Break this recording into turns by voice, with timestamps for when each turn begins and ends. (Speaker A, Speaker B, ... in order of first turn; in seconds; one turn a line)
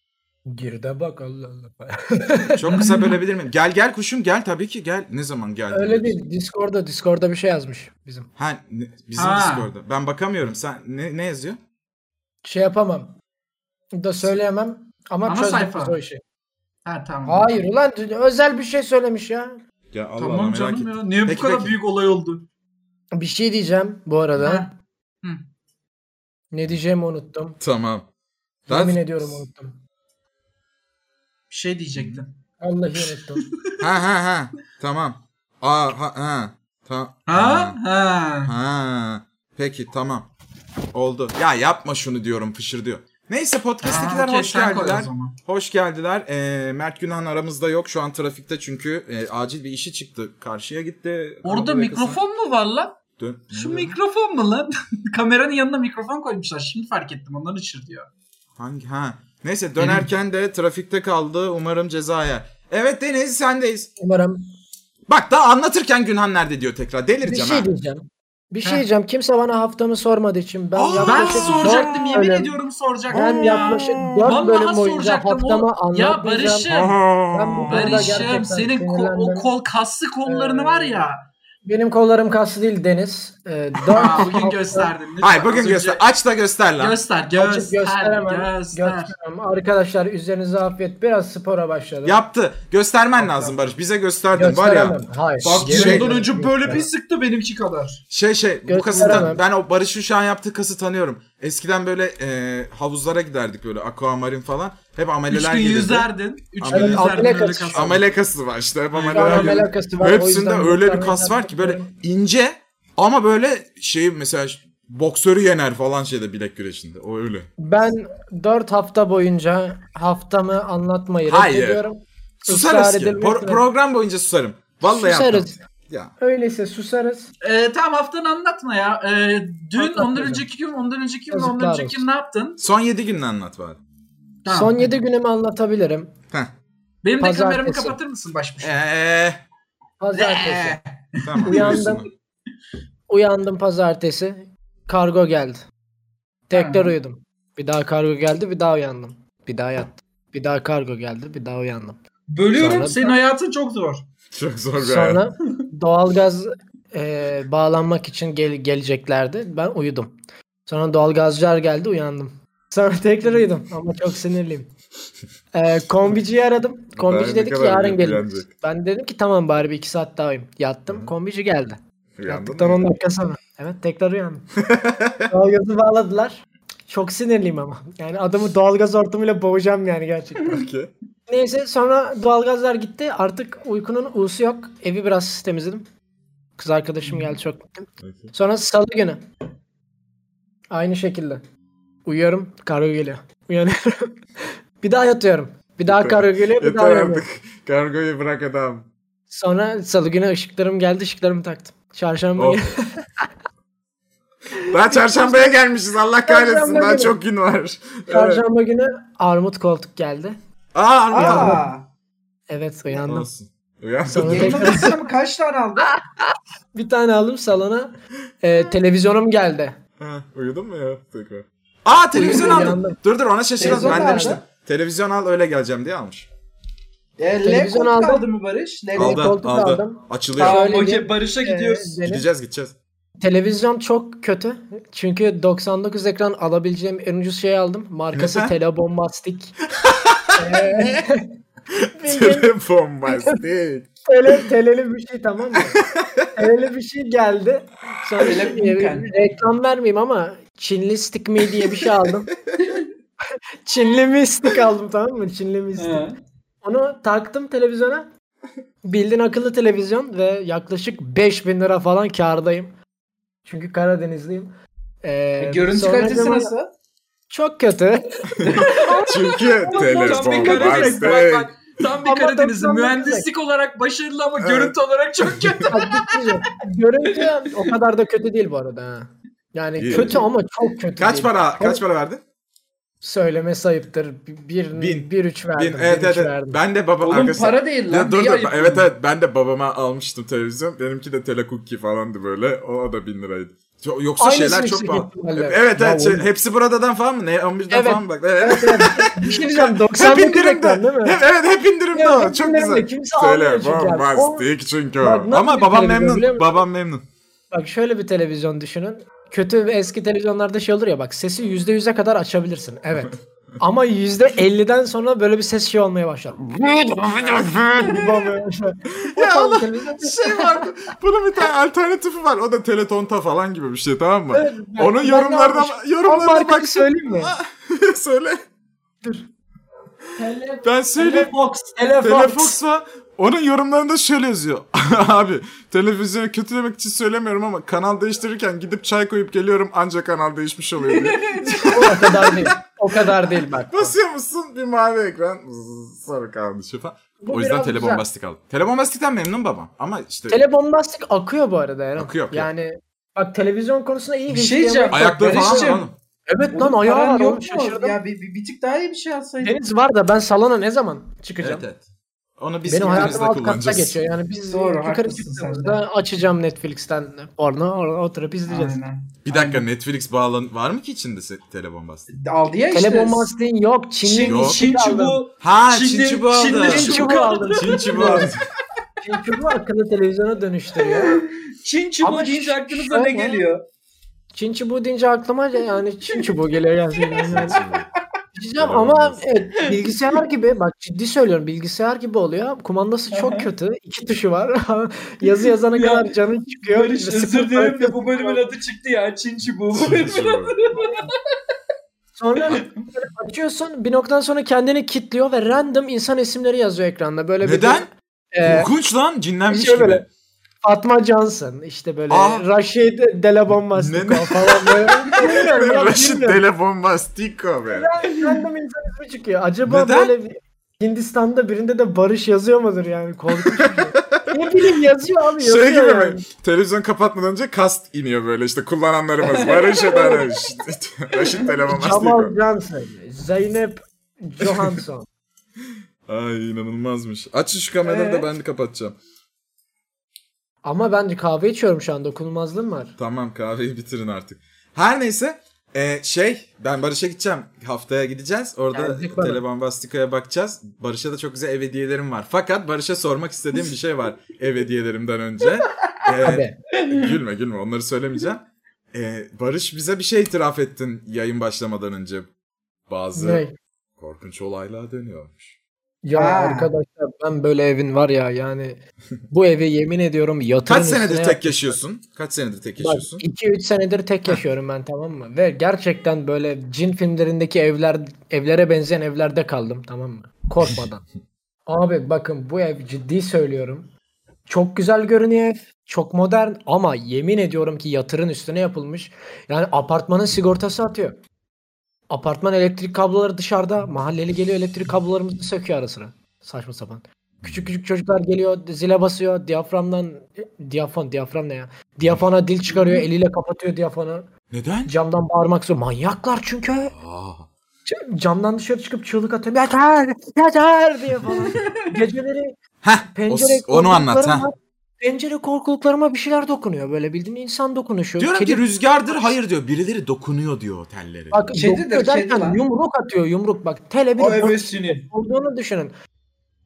Speaker A: 0.5-2.6
Speaker B: 2.5-6.2
Speaker C: 2.7-3.2
Speaker A: 5.7-8.3
Speaker B: 8.4-11.6
Speaker C: 9.2-9.7
Speaker A: 12.4-13.2
Speaker A: 14.0-16.2
Speaker C: 15.3-16.0
Speaker C: 16.9-17.5
Speaker A: 17.2-19.6
Speaker B: 19.9-21.8
Speaker C: 20.2-22.5
Speaker A: 23.1-24.7
Speaker C: 24.4-25.4
Speaker A: 26.5-27.6
Speaker B: 27.6-28.1
Speaker B: 28.7-29.4
Speaker A: 28.7-29.8
Speaker C: 31.5-32.3
Speaker B: 31.9-32.2
Speaker A: 32.6-33.4
Speaker C: 33.1-33.7
Speaker B: 33.8-37.8
Speaker C: 37.3-38.5
Speaker B: 38.4-40.3
Speaker B: 40.9-52.2
Speaker C: 43.8-45.4
Speaker C: 51.4-53.0
Speaker B: 53.2-54.0
Speaker C: 53.5-58.1
Speaker B: 58.6-63.9
Speaker C: 59.8-60.1
Speaker A: 64.0-64.4
Speaker B: 65.1-67.7
Speaker A: 67.2-72.5
Speaker B: 70.8-72.2
Speaker C: 71.0-77.0
Speaker B: 73.1-74.3
Speaker A: 73.1-76.7
Speaker B: 76.7-78.4
Speaker A: 77.3-79.5
Speaker C: 77.7-81.2
Speaker A: 80.2-81.0
Speaker A: 81.7-84.9
Speaker C: 83.9-86.0
Speaker B: 85.2-87.0
Speaker C: 86.8-89.1
Speaker A: 87.4-92.2
Speaker B: 92.0-96.8
Speaker A: 93.2-93.5
Speaker A: 94.3-96.9
Speaker C: 95.4-98.0
Speaker B: 98.1-117.5
Speaker A: 98.7-99.4
Speaker C: 99.0-99.3
Speaker C: 105.3-108.0
Speaker A: 106.7-108.0
Speaker C: 108.9-109.7
Speaker A: 109.1-111.9
Speaker A: 117.6-123.6
Speaker B: 121.3-121.8
Speaker B: 122.4-126.1
Speaker A: 124.8-125.6
Speaker A: 126.2-127.3
Speaker C: 127.4-132.6
Speaker A: 129.8-130.4
Speaker A: 131.3-132.1
Speaker B: 132.6-133.8
Speaker C: 134.4-134.9
Speaker A: 134.5-136.1
Speaker C: 137.0-138.8
Speaker A: 137.2-138.0
Speaker B: 138.6-139.4
Speaker A: 140.0-140.8
Speaker C: 140.1-141.8
Speaker B: 141.2-142.1
Speaker A: 141.4-142.1
Speaker A: 143.1-145.7
Speaker A: 146.5-152.0
Speaker C: 146.5-146.9
Speaker C: 152.3-154.0
Speaker A: 152.5-153.2
Speaker B: 154.3-155.2
Speaker A: 154.8-160.2
Speaker A: 160.7-164.7
Speaker A: 165.5-174.5
Speaker B: 167.0-168.5
Speaker B: 172.2-172.9
Speaker B: 174.6-175.3
Speaker A: 175.2-180.6
Speaker B: 180.4-180.9
Speaker A: 181.3-185.9
Speaker A: 186.6-189.2
Speaker B: 188.0-188.3
Speaker A: 190.7-191.4
Speaker A: 192.1-194.1
Speaker A: 194.8-197.3
Speaker B: 195.9-198.9
Speaker A: 199.3-203.3
Speaker B: 204.7-208.4
Speaker A: 204.7-205.6
Speaker A: 206.3-207.2
Speaker A: 208.1-210.4
Speaker B: 210.7-211.6
Speaker C: 211.1-211.9
Speaker A: 211.2-211.7
Speaker A: 212.5-213.3
Speaker B: 213.0-214.9
Speaker A: 214.1-215.0
Speaker C: 214.2-215.9
Speaker A: 215.8-219.8
Speaker B: 220.0-226.3
Speaker A: 222.1-223.0
Speaker C: 222.2-222.7
Speaker A: 223.6-224.4
Speaker C: 223.6-224.4
Speaker C: 227.2-229.3
Speaker A: 227.4-228.3
Speaker B: 229.0-230.6
Speaker A: 229.0-232.2
Speaker C: 230.4-232.0
Speaker B: 232.1-232.8
Speaker A: 233.2-239.6
Speaker B: 238.1-238.5
Speaker B: 239.8-241.0
Speaker A: 240.4-241.3
Speaker B: 241.7-244.4
Speaker A: 242.0-242.6
Speaker A: 243.1-243.4
Speaker A: 244.1-245.8
Speaker B: 245.6-246.3
Speaker A: 246.3-252.3
Speaker C: 248.2-249.1
Speaker B: 251.6-251.9
Speaker A: 253.7-256.1
Speaker C: 255.8-256.1
Speaker A: 256.6-258.1
Speaker A: 258.8-262.7
Speaker A: 263.4-266.5
Speaker C: 265.4-266.7
Speaker A: 267.3-271.2
Speaker B: 268.4-271.6
Speaker C: 268.4-276.4
Speaker A: 272.0-273.3
Speaker B: 274.4-274.8
Speaker B: 275.3-275.7
Speaker A: 275.7-281.8
Speaker C: 277.1-277.7
Speaker B: 279.8-280.2
Speaker C: 279.9-280.2
Speaker B: 281.0-282.2
Speaker A: 283.0-286.6
Speaker B: 284.8-307.1
Speaker C: 287.0-288.9
Speaker A: 294.2-296.3
Speaker A: 297.7-301.2
Speaker A: 301.9-304.5
Speaker A: 305.0-306.6
Speaker A: 307.5-320.7
Speaker B: 316.6-318.3
Speaker B: 318.9-328.4
Speaker A: 324.3-327.4
Speaker A: 330.2-332.6
Speaker B: 330.6-331.3
Speaker B: 332.0-342.5
Speaker C: 340.9-342.1
Speaker A: 341.7-344.0
Speaker B: 343.7-350.4
Speaker A: 347.2-348.1
Speaker A: 350.3-358.0
Speaker B: 352.0-352.5
Speaker C: 354.3-355.9
Speaker B: 354.9-355.9
Speaker C: 356.5-359.6
Speaker A: 359.4-361.6
Speaker B: 361.4-361.8
Speaker B: 362.4-363.9
Speaker A: 362.7-368.8
Speaker C: 362.9-363.2
Speaker C: 364.5-365.8
Speaker C: 368.5-369.6
Speaker B: 369.2-372.1
Speaker C: 372.1-373.3
Speaker A: 372.7-375.2
Speaker C: 374.0-378.4
Speaker B: 374.3-374.6
Speaker B: 375.4-378.4
Speaker A: 376.6-378.3
Speaker A: 379.0-381.2
Speaker C: 380.8-383.6
Speaker A: 382.0-383.4
Speaker A: 384.3-387.6
Speaker C: 386.1-386.3
Speaker C: 387.0-387.5
Speaker B: 387.3-387.9
Speaker A: 388.4-398.4
Speaker B: 388.6-389.2
Speaker C: 389.7-390.2
Speaker C: 393.1-393.5
Speaker C: 395.4-396.1
Speaker C: 396.7-401.2
Speaker B: 399.7-400.5
Speaker A: 402.2-408.7
Speaker B: 407.4-407.9
Speaker B: 408.4-410.1
Speaker A: 409.5-410.1
Speaker A: 410.6-416.4
Speaker B: 412.1-412.5
Speaker B: 413.8-417.9
Speaker A: 417.7-426.2
Speaker C: 418.1-418.4
Speaker B: 419.7-420.1
Speaker B: 423.4-424.4
Speaker B: 425.4-432.4
Speaker C: 429.3-430.2
Speaker A: 429.8-430.2
Speaker A: 431.7-435.1
Speaker B: 434.4-434.8
Speaker B: 436.1-439.0
Speaker A: 437.8-438.3
Speaker A: 440.6-443.0
Speaker B: 443.0-462.3
Speaker A: 448.7-449.4
Speaker A: 456.2-456.6
Speaker C: 456.8-457.2
Speaker B: 462.9-463.4
Speaker A: 463.1-463.6
Speaker B: 464.0-465.6
Speaker A: 466.0-471.8
Speaker C: 466.1-466.7
Speaker B: 470.7-473.2
Speaker A: 472.8-481.1
Speaker A: 481.7-483.9
Speaker A: 484.5-491.2
Speaker A: 492.1-504.3
Speaker B: 497.4-497.7
Speaker B: 504.5-504.9
Speaker A: 504.9-506.9
Speaker B: 506.9-507.5
Speaker A: 507.9-512.6
Speaker C: 511.3-511.9
Speaker B: 512.8-514.4
Speaker A: 513.1-519.3
Speaker B: 518.2-521.6
Speaker A: 521.3-525.9
Speaker C: 521.6-522.6
Speaker C: 524.2-525.1